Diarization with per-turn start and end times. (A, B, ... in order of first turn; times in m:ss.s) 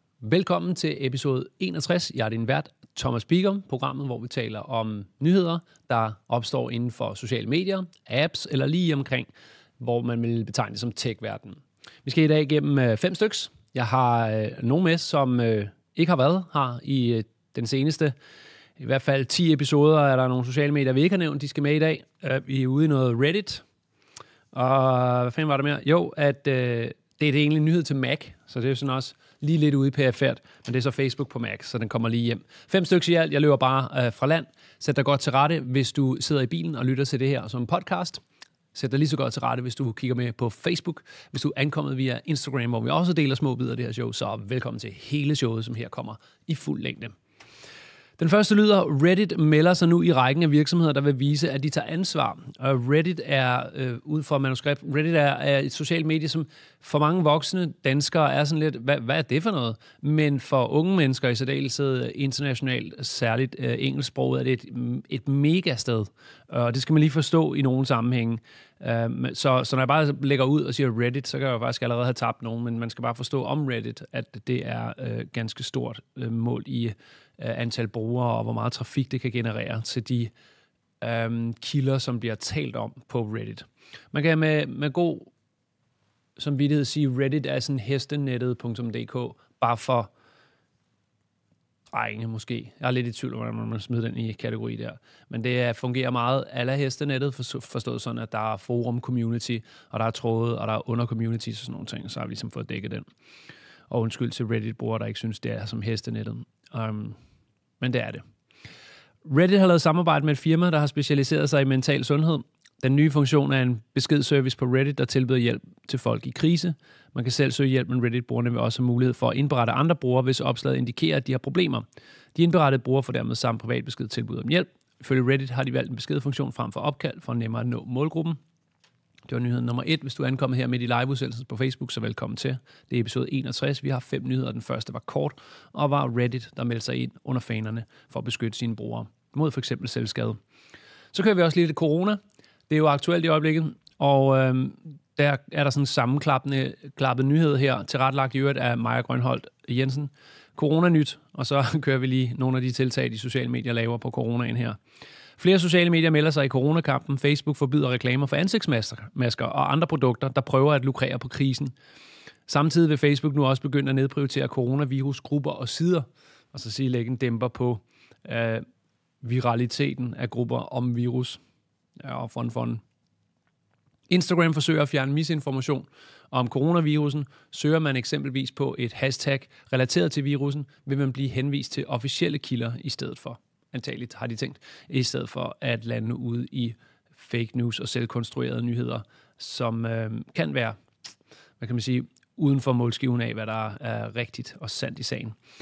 0:00.2-0:09.3 A
0:09.8-0:18.1 A
0:18.8-0:23.6 A
0:24.5-0:38.2 A
0:38.7-0:47.2 A
0:48.2-1:20.3 A
1:21.0-1:25.3 A
1:26.4-1:30.1 A
1:31.9-1:43.0 A
1:43.9-1:47.2 A
1:47.8-1:48.2 A
1:49.2-2:08.4 A
2:09.3-2:20.4 A
2:21.1-2:34.8 A
2:35.4-2:41.7 A
2:42.5-2:48.6 A
2:49.2-2:51.4 A
2:52.0-2:52.8 A
2:54.1-3:10.8 A
3:11.6-3:15.4 A